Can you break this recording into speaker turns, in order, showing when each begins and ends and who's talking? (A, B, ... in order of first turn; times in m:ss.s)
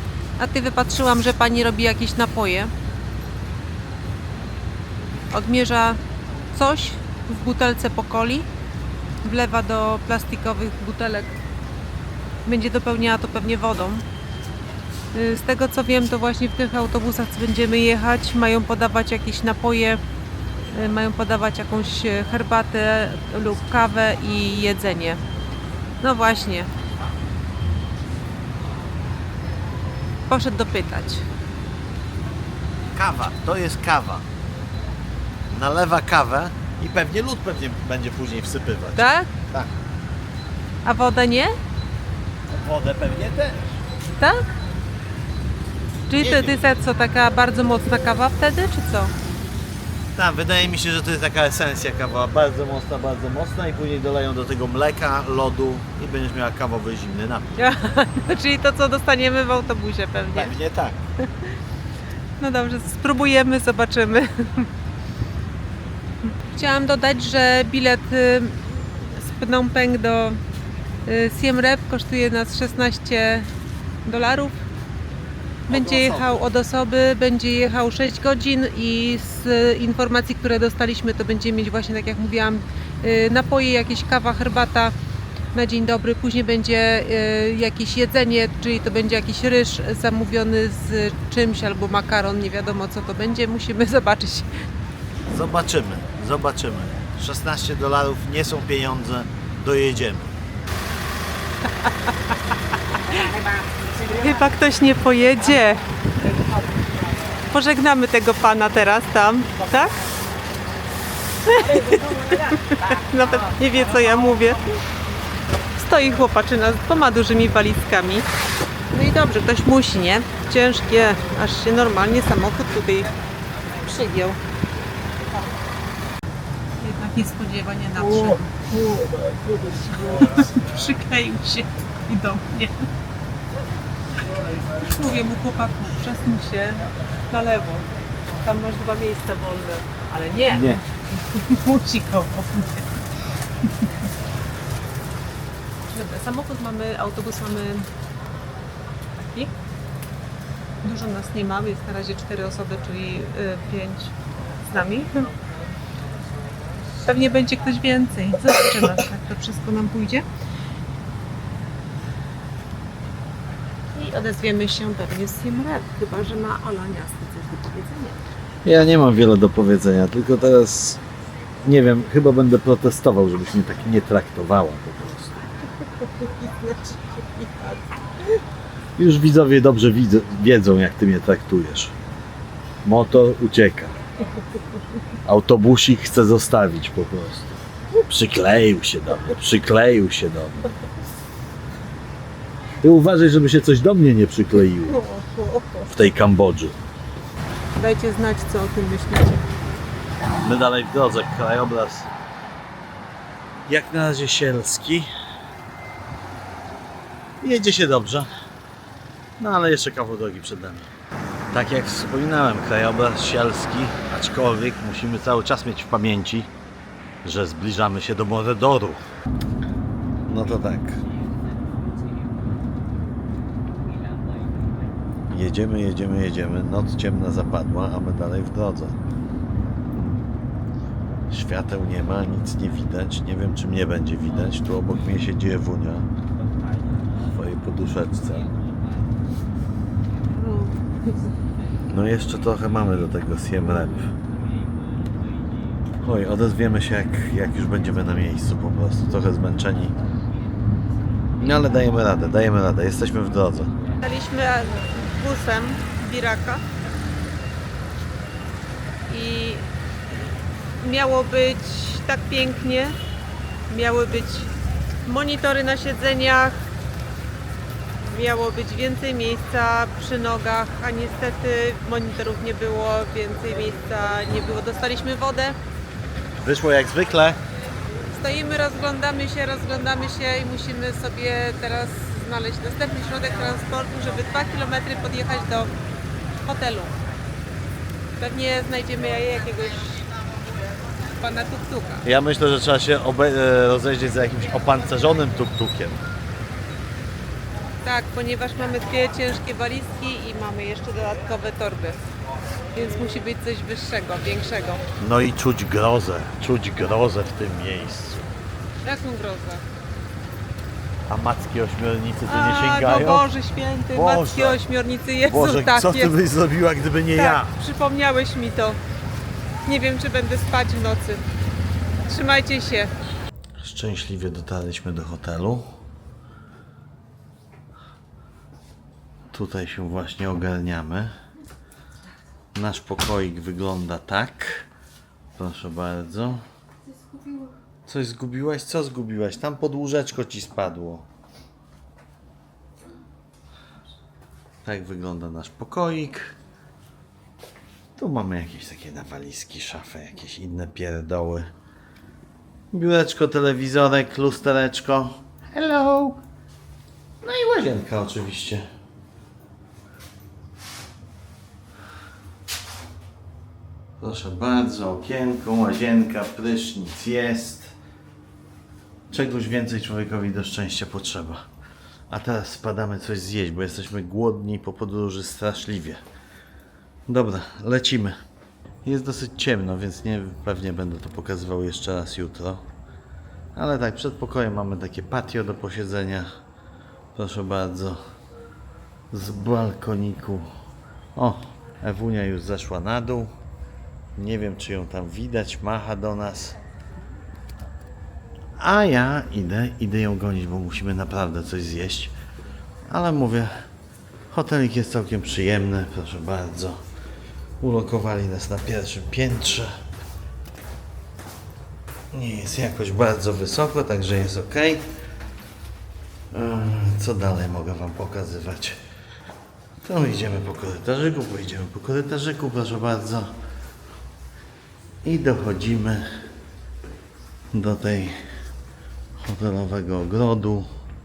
0:00.4-0:02.7 A
0:05.3-0:06.0 A
0:06.5-0:08.5 A
0:09.2-0:11.4 A
0:12.4-0:14.0 A
0:15.1-0:20.0 A
0:20.7-0:25.2 A
0:26.0-0:26.7 A
0:30.3-0:31.2 A
0:32.9-0:34.2 B
0:35.5-0:39.7 B
0:39.0-0:39.3 A
0:40.8-0:41.5 A
0:42.5-0:43.8 B
0:44.2-0:44.5 A
0:46.1-0:49.1 A
0:46.2-0:46.6 B
0:50.1-0:57.7 B
0:57.6-1:00.6 A
1:00.3-1:01.0 B
1:01.2-1:01.6 A
1:02.4-1:04.7 A
1:06.5-1:10.4 A
1:11.0-1:13.5 A
1:14.0-1:14.6 A
1:15.7-1:16.4 B
1:15.7-1:24.9 A
1:25.5-1:34.6 A
1:35.3-1:40.4 B
1:41.8-1:45.8 A
1:47.4-1:49.9 A
1:51.4-1:54.8 A
1:55.7-1:58.2 A
1:58.9-2:03.1 A
2:03.8-2:04.4 A
2:06.8-2:08.8 A
2:08.0-2:09.8 B
2:09.9-2:12.9 A
2:14.8-2:23.0 A
2:20.5-2:20.8 B
2:23.6-2:23.9 A
2:25.9-2:27.9 A
2:29.2-2:29.5 A
2:30.8-2:35.3 A
2:37.0-2:40.2 A
2:43.9-2:48.2 A
2:48.6-2:51.0 B
2:51.6-2:55.5 B
2:55.9-2:57.8 A
2:59.0-3:01.9 B
3:02.8-3:03.9 B
3:05.2-3:10.8 B
3:12.8-3:15.0 B
3:14.9-3:15.9 A
3:15.9-3:16.8 B
3:17.7-3:19.4 A
3:20.4-3:22.1 B
3:23.7-3:25.1 B
3:27.4-3:28.3 B
3:29.4-3:30.9 B
3:31.5-3:36.5 B
3:37.2-3:39.0 B
3:40.3-3:41.0 B
3:45.3-3:49.0 B
3:49.9-3:50.2 B
3:51.3-3:56.1 B
3:57.2-3:58.5 B
4:00.3-4:01.3 A
4:01.9-4:04.1 B
4:06.0-4:10.0 B
4:11.4-4:13.7 B
4:14.0-4:16.6 A
4:19.1-4:19.7 A
4:20.8-4:22.9 A
4:23.7-4:24.5 A
4:25.0-4:26.6 A
4:28.0-4:35.6 A
4:36.4-4:37.4 B
4:38.1-4:45.7 A
4:46.4-4:46.9 A
4:48.2-4:50.1 A
4:51.1-4:52.0 A
4:52.0-4:56.0 B
4:57.8-5:02.0 A
5:02.7-5:04.8 A
5:05.0-5:08.3 B
5:08.8-5:09.6 A
5:11.1-5:13.3 B
5:12.3-5:16.1 A
5:13.9-5:14.6 B
5:15.2-5:17.5 B
5:17.2-5:18.8 A
5:19.6-5:21.2 A
5:22.0-5:22.9 A
5:23.6-5:25.6 B
5:29.3-5:31.1 B
5:32.5-5:34.7 B
5:35.4-5:36.4 B
5:37.9-5:41.1 B
5:44.6-5:46.3 B
5:48.0-5:51.5 B
5:52.7-5:56.2 B
5:57.2-5:58.6 B
6:04.0-6:07.7 B
6:09.1-6:11.4 B
6:12.1-6:16.0 B
6:17.1-6:18.1 B
6:18.8-6:22.6 B
6:23.5-6:26.2 B
6:27.1-6:28.0 B
6:29.1-6:30.5 B
6:31.1-6:33.3 B
6:34.1-6:36.6 B
6:38.6-6:42.1 B
6:42.9-6:43.5 B
6:44.3-6:46.8 B
6:47.6-6:49.7 B
6:52.1-6:54.8 B
6:56.3-6:58.8 B
6:59.8-7:03.3 B
7:05.0-7:06.2 B
7:07.5-7:08.2 B
7:09.2-7:10.7 B